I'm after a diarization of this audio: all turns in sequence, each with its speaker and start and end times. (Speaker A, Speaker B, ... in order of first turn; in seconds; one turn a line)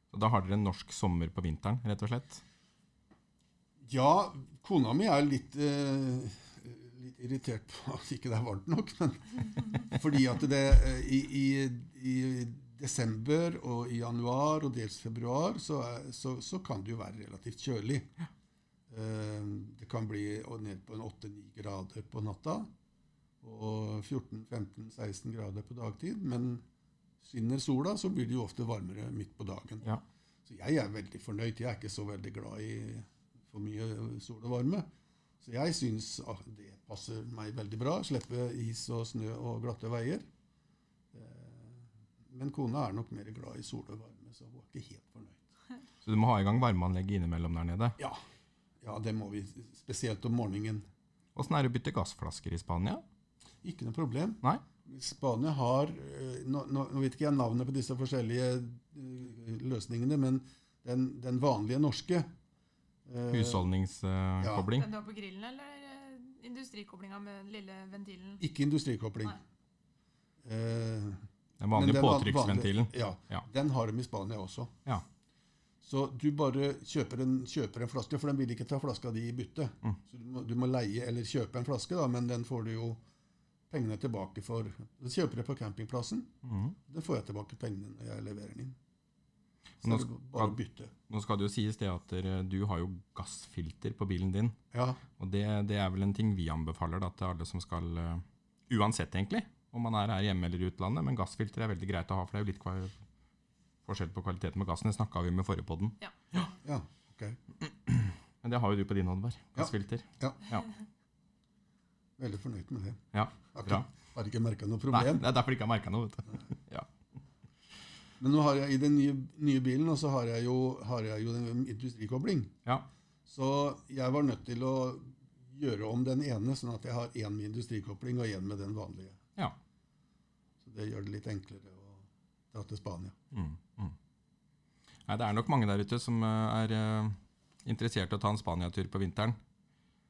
Speaker A: 0.1-2.4
Speaker B: 3.8-18.1
Speaker B: 18.9-22.7
Speaker B: 23.4-26.6
Speaker B: 27.2-29.9
Speaker B: 30.4-34.9
Speaker B: 35.4-40.3
Speaker B: 41.1-45.5
Speaker A: 46.0-48.0
Speaker B: 48.8-50.9
Speaker A: 51.4-53.0
Speaker B: 53.6-62.3
Speaker B: 63.1-63.6
Speaker A: 63.3-64.9
Speaker B: 64.4-64.7
Speaker C: 64.7-68.4
Speaker B: 68.4-69.4
Speaker B: 70.4-74.8
Speaker A: 71.6-73.4
Speaker B: 75.8-83.0
Speaker B: 83.7-86.3
Speaker A: 86.4-86.8
Speaker B: 86.9-88.8
Speaker B: 89.8-90.9
Speaker A: 89.8-90.5
Speaker A: 91.1-94.6
Speaker B: 94.7-95.0
Speaker A: 95.2-103.0
Speaker A: 103.8-106.5
Speaker B: 106.6-107.4
Speaker A: 107.6-110.7
Speaker B: 109.6-110.4
Speaker B: 112.2-115.2
Speaker A: 113.1-113.9
Speaker A: 114.9-116.9
Speaker B: 118.2-122.5
Speaker B: 123.3-129.2
Speaker B: 130.6-133.2
Speaker A: 133.3-133.9
Speaker A: 135.1-139.4